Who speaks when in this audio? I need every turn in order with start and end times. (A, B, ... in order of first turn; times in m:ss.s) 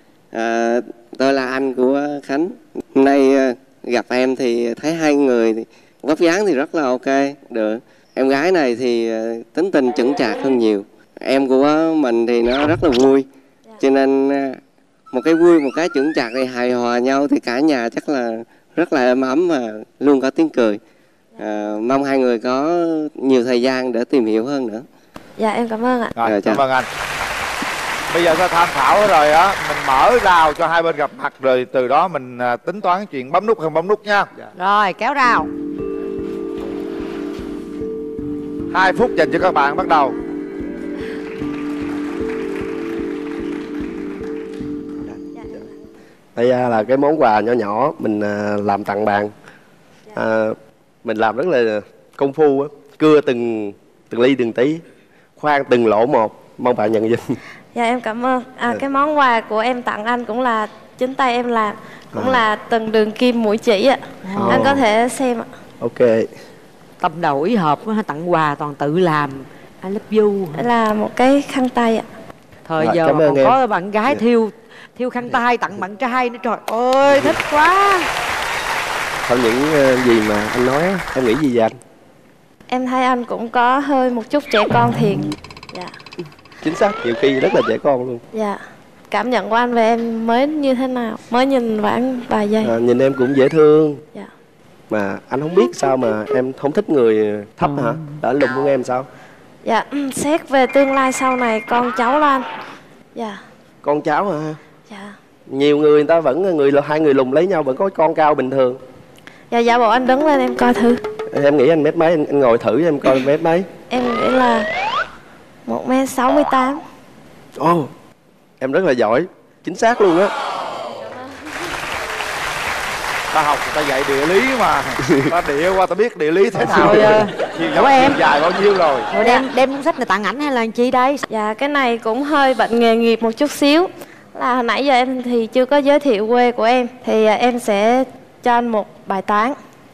0:00.4-0:13.3 A
0:13.8-0:14.6 A
0:15.1-0:20.8 A
0:21.4-0:22.7 A
0:23.2-0:24.8 A
0:25.4-0:26.2 B
0:26.2-0:26.9 C
0:26.3-0:26.6 A
0:28.1-0:34.3 C
0:34.6-0:35.5 D
0:38.7-0:40.2 C
0:46.4-0:49.3 E
0:50.1-0:54.8 E
0:55.4-0:57.4 E
0:57.7-1:05.5 B
1:02.1-1:02.4 E
1:04.2-1:04.6 D
1:04.4-1:04.8 E
1:05.8-1:06.3 E
1:07.0-1:10.7 D
1:10.6-1:12.1 B
1:12.7-1:18.1 D
1:12.8-1:14.2 E
1:17.1-1:17.4 E
1:19.2-1:21.8 E
1:22.7-1:25.9 B
1:26.6-1:28.2 E
1:28.3-1:28.6 B
1:29.1-1:32.7 B
1:32.6-1:34.0 E
1:34.9-1:39.1 E
1:39.6-1:42.4 B
1:43.8-1:44.6 E
1:44.9-1:45.2 B
1:45.5-1:48.8 E
1:49.5-1:51.0 B
1:51.3-1:53.7 E
1:53.9-1:54.7 B
1:55.7-1:56.8 B
1:57.6-1:57.9 E
1:58.6-2:00.3 E
2:03.3-2:09.1 C
2:06.6-2:08.2 D
2:09.1-2:11.2 D
2:09.2-2:09.5 B
2:11.3-2:19.6 B